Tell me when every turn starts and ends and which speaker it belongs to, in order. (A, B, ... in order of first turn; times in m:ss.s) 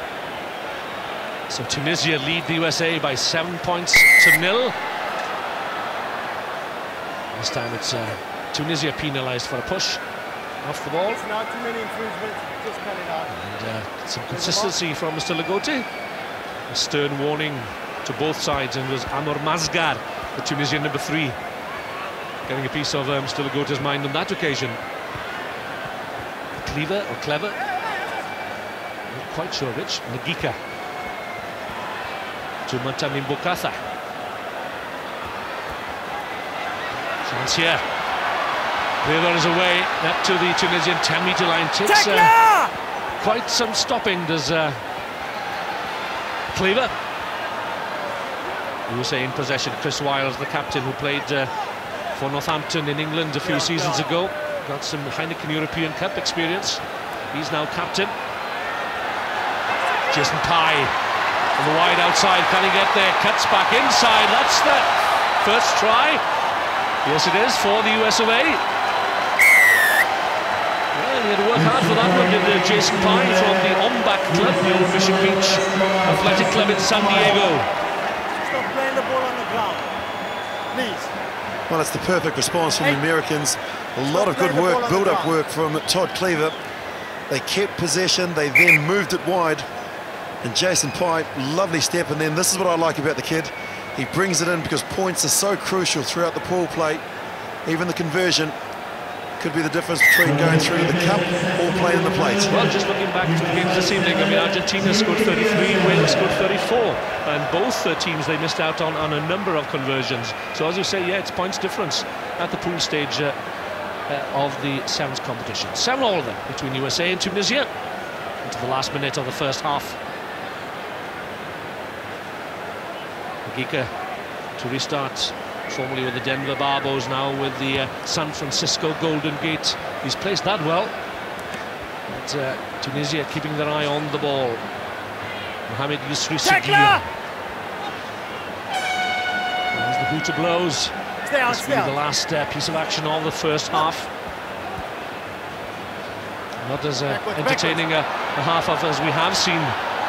0:01.5-0:04.8 A
0:07.3-0:10.0 A
0:10.6-0:11.2 A
0:11.2-0:13.3 B
0:13.3-0:15.9 A
0:16.7-0:21.4 A
0:22.4-0:24.8 A
0:26.6-0:27.6 A
0:29.1-0:30.6 A
0:32.6-0:33.8 A
0:37.2-0:37.8 A
0:39.0-0:42.6 A
0:42.4-0:42.7 B
0:43.2-0:44.8 A
0:46.5-0:46.9 A
0:48.9-0:51.5 A
0:52.1-0:58.1 A
1:00.1-1:00.9 A
1:01.6-1:06.2 A
1:07.0-1:08.6 A
1:10.9-1:17.7 A
1:18.4-1:19.9 B
1:20.7-1:21.1 B
1:21.7-1:26.6 C
1:24.3-1:25.1 B
1:27.3-1:29.6 C
1:30.4-1:37.0 C
1:37.6-1:38.5 C
1:39.4-1:42.5 C
1:42.5-1:53.4 A
1:54.1-1:57.7 A
1:58.4-2:00.0 A
2:03.4-2:03.9 A
2:04.6-2:10.9 A
2:12.1-2:14.6 A
2:15.7-2:17.0 A
2:19.7-2:24.1 A
2:21.3-2:21.7 B
2:26.6-2:29.8 A